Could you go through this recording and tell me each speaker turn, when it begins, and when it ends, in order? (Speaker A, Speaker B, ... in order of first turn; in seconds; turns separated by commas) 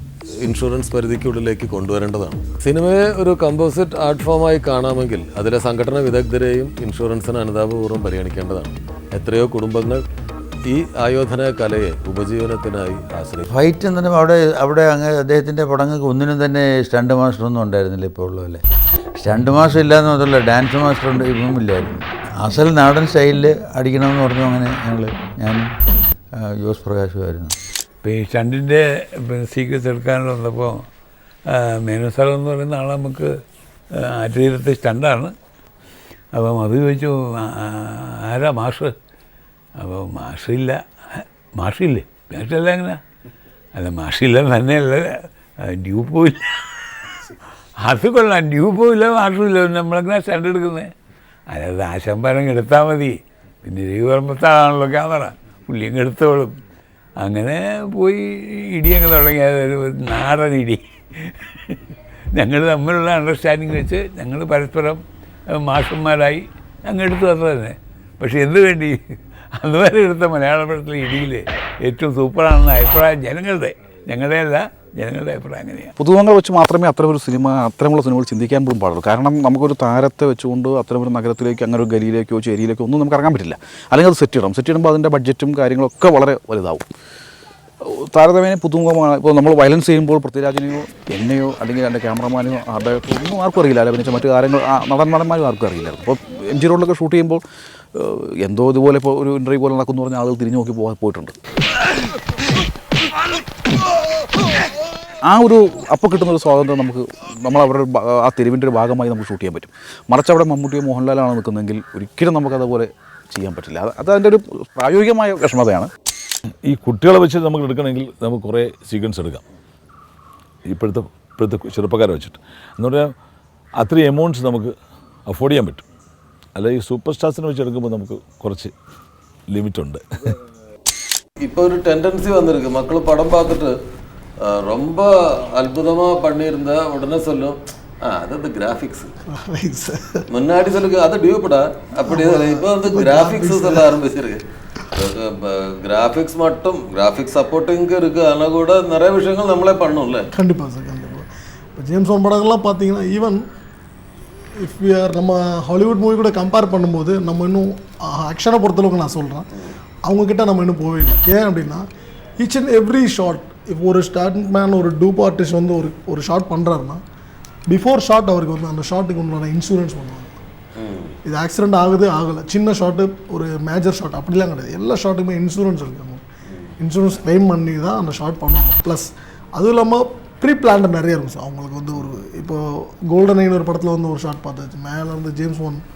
Speaker A: 0.4-10.0, Speaker A: 10.7-13.5, Speaker B: 13.5-18.6, Speaker B: 19.2-25.7, Speaker B: 26.3-27.5, Speaker C: 28.0-30.8, Speaker C: 31.5-33.3, Speaker C: 34.1-35.3, Speaker C: 36.3-38.9, Speaker C: 39.8-43.0, Speaker C: 43.7-45.1, Speaker C: 45.7-46.6, Speaker C: 47.8-50.9, Speaker C: 51.5-56.5, Speaker C: 57.2-61.8, Speaker C: 62.3-65.0, Speaker C: 65.6-69.0, Speaker C: 69.6-75.9, Speaker D: 76.0-86.8, Speaker D: 87.8-97.4, Speaker D: 97.9-101.3, Speaker D: 105.2-115.9, Speaker E: 116.6-119.4, Speaker E: 120.7-123.1, Speaker E: 123.8-124.7, Speaker E: 125.3-125.8, Speaker E: 126.5-128.7, Speaker E: 129.5-130.3, Speaker A: 131.4-133.7, Speaker A: 134.4-139.1, Speaker F: 139.3-140.2, Speaker A: 140.3-144.4, Speaker F: 142.1-143.8, Speaker A: 144.9-150.3, Speaker F: 150.3-153.4, Speaker F: 154.6-159.4, Speaker F: 160.0-161.8, Speaker F: 162.4-167.0, Speaker F: 167.7-170.4, Speaker A: 170.8-171.1, Speaker F: 171.2-176.2, Speaker F: 176.8-185.8